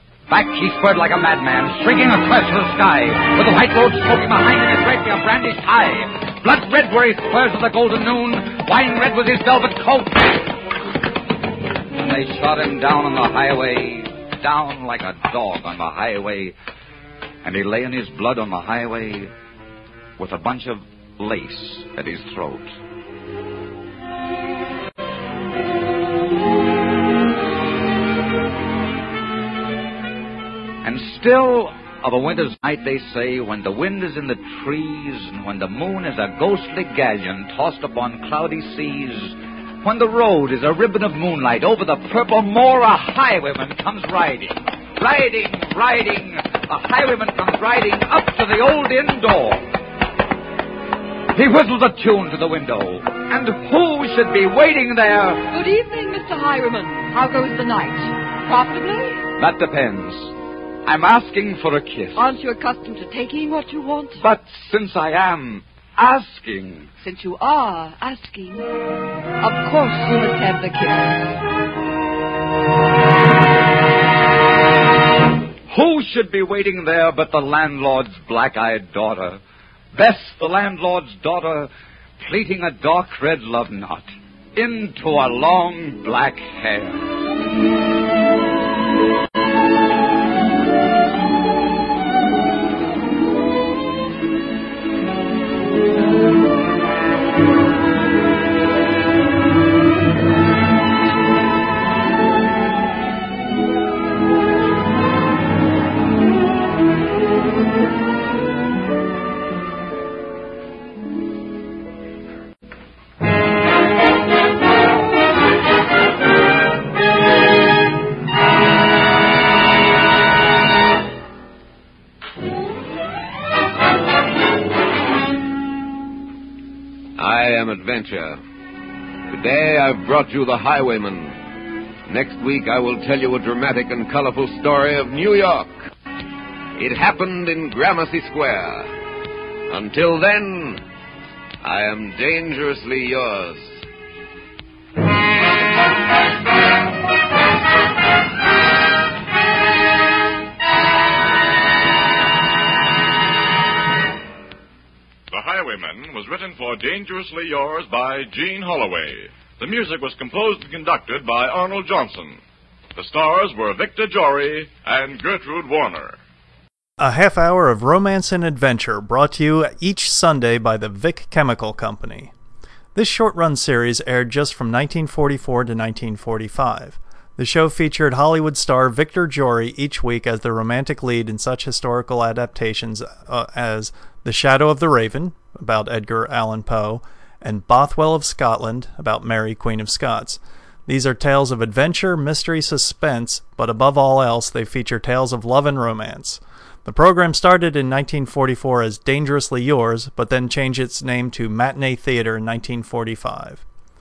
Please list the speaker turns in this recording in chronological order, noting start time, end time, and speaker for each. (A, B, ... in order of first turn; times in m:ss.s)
0:00.3-0:10.5 A
0:12.0-0:16.5 A
0:17.4-0:19.3 A
0:20.2-0:22.8 A
0:30.8-0:49.7 A
0:51.3-0:55.5 A
0:55.5-0:59.2 B
0:59.4-1:02.3 A
1:02.2-1:04.2 B
1:04.2-1:06.9 A
1:07.0-1:08.7 B
1:09.4-1:11.4 B
1:15.7-1:19.4 A
1:19.9-1:27.1 A
2:07.2-2:08.4 C
2:09.3-2:11.4 C
2:12.1-2:15.8 C
2:16.8-2:18.9 C
2:19.7-2:20.8 C
2:21.6-2:23.8 C
2:35.3-2:42.4 D
2:42.9-2:46.2 D
2:47.0-2:52.3 E
2:52.9-3:23.6 E